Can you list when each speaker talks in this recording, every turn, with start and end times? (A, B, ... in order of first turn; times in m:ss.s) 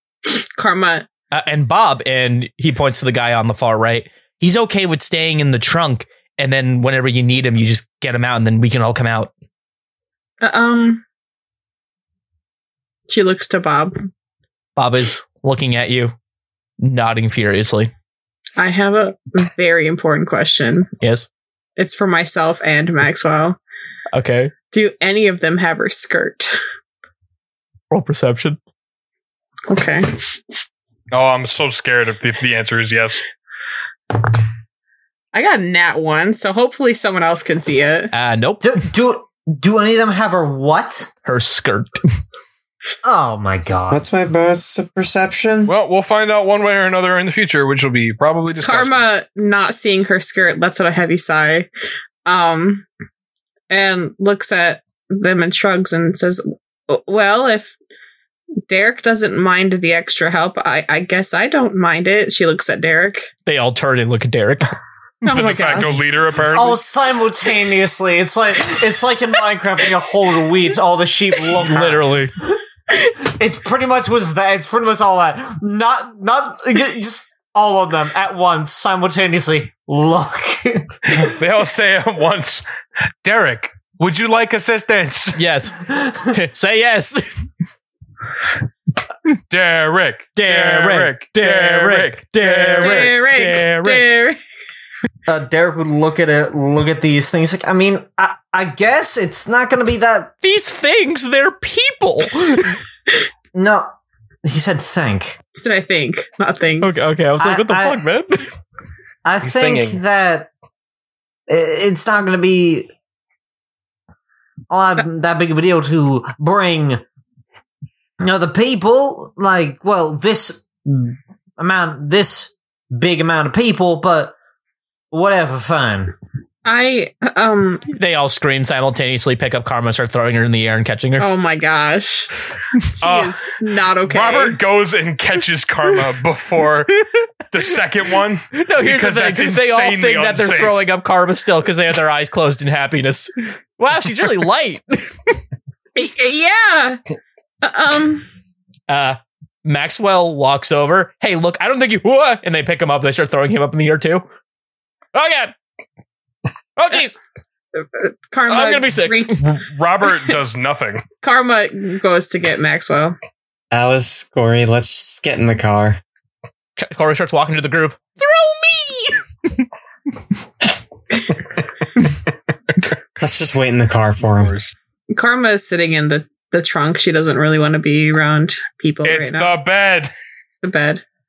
0:00.2-0:01.1 A
0:01.3-0:09.3 B
0:10.4-0:11.0 A
0:13.1-0:14.0 A
0:14.8-0:16.1 B
0:16.8-0:17.9 B
0:18.6-0:20.9 A
0:21.0-0:21.3 B
0:21.8-0:23.6 A
0:24.1-0:24.5 B
0:24.7-0:26.6 A
0:27.9-0:28.6 B
0:29.7-0:30.3 A
0:31.1-0:33.2 C
0:35.3-0:38.1 A
0:38.1-0:38.8 B
0:38.6-0:41.1 D
0:41.2-0:42.0 B
0:43.0-0:44.0 D
0:43.9-0:45.7 E
0:45.7-0:49.0 C
0:48.6-0:51.7 A
0:52.2-0:52.8 A
0:53.7-0:57.7 A
0:58.7-1:03.3 A
1:03.4-1:04.8 B
1:05.2-1:06.0 A
1:05.2-1:06.8 C
1:06.5-1:12.1 D
1:11.6-1:12.3 B
1:13.2-1:21.3 D
1:21.1-1:22.6 C
1:23.2-1:25.4 C
1:25.3-1:27.2 B
1:29.5-1:33.1 C
1:30.4-1:34.0 B
1:32.8-1:34.4 A
1:35.2-1:40.3 D
1:40.4-1:42.8 B
1:43.5-1:43.9 D
1:44.4-1:45.4 D
1:45.5-1:47.0 A
1:46.8-1:48.5 B
1:47.4-1:48.0 D
1:49.2-1:50.5 D
1:49.4-1:50.0 C
1:51.5-1:52.9 D
1:54.7-1:57.0 D
1:58.2-2:04.3 D
2:05.1-2:06.1 D
2:06.6-2:07.8 A
2:07.9-2:11.2 B
2:11.2-2:12.3 A
2:13.0-2:14.6 A
2:13.0-2:13.4 C
2:14.0-2:17.0 C
2:16.9-2:17.2 B
2:17.5-2:20.8 C
2:18.5-2:25.4 B
2:26.0-2:27.0 A
2:27.6-2:28.2 A
2:28.9-2:34.3 B
2:35.1-2:35.5 B
2:36.8-2:37.2 B
2:37.8-2:39.5 A
2:38.5-2:39.4 B
2:39.4-2:41.0 C
2:41.2-2:43.2 A
2:43.7-2:46.0 E
2:46.8-2:49.6 B
2:53.2-2:54.5 E
2:54.4-2:54.7 C
2:55.1-2:59.5 A
2:59.0-3:00.1 C
3:00.6-3:01.0 A